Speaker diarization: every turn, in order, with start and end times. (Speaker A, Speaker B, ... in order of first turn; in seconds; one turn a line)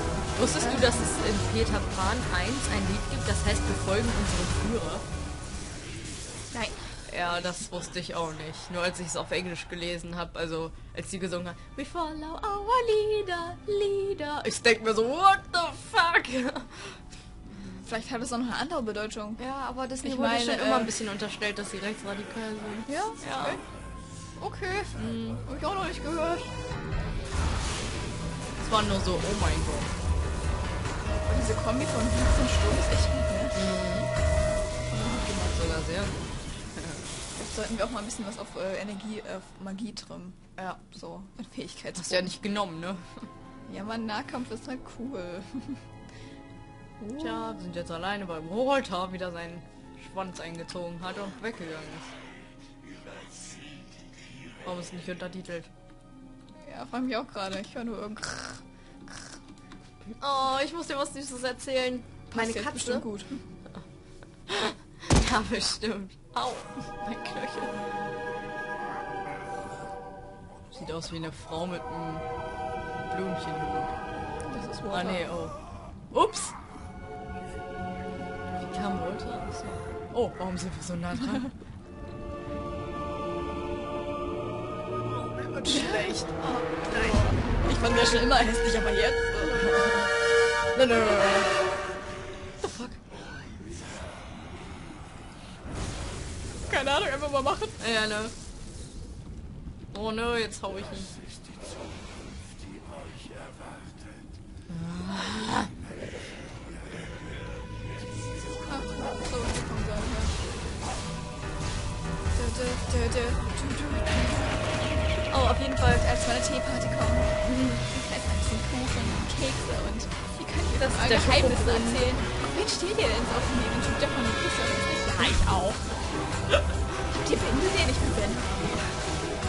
Speaker A: 0.3-5.0
Speaker B: 0.6-1.0
Speaker B: 6.5-7.0
Speaker A: 7.1-17.0
Speaker B: 17.7-19.4
Speaker A: 19.4-23.6
Speaker B: 20.0-20.9
Speaker B: 22.9-23.6
Speaker B: 24.4-26.5
Speaker A: 24.9-25.4
Speaker A: 28.6-29.9
Speaker B: 31.2-33.6
Speaker A: 33.5-34.1
Speaker B: 34.9-35.2
Speaker A: 34.9-37.0
Speaker B: 37.3-42.3
Speaker A: 40.6-40.8
Speaker A: 41.9-43.3
Speaker B: 43.7-45.9
Speaker B: 47.0-47.6
Speaker A: 47.2-52.1
Speaker A: 54.6-55.7
Speaker B: 56.6-59.2
Speaker A: 60.2-63.0
Speaker B: 62.3-63.4
Speaker A: 64.5-67.7
Speaker A: 70.7-72.2
Speaker A: 73.1-74.0
Speaker B: 74.4-75.3
Speaker A: 74.9-75.6
Speaker A: 76.1-76.5
Speaker A: 78.6-81.5
Speaker A: 85.1-87.3
Speaker B: 85.6-89.7
Speaker A: 89.5-90.1
Speaker A: 90.7-91.6
Speaker A: 92.6-93.0
Speaker B: 96.7-97.8
Speaker A: 97.8-98.3
Speaker A: 99.9-101.2
Speaker A: 104.7-105.7
Speaker B: 108.7-110.4
Speaker B: 112.3-114.8
Speaker A: 115.3-116.0
Speaker B: 115.3-117.4
Speaker A: 117.4-117.8
Speaker B: 117.9-126.0
Speaker A: 120.8-122.2
Speaker B: 127.1-128.9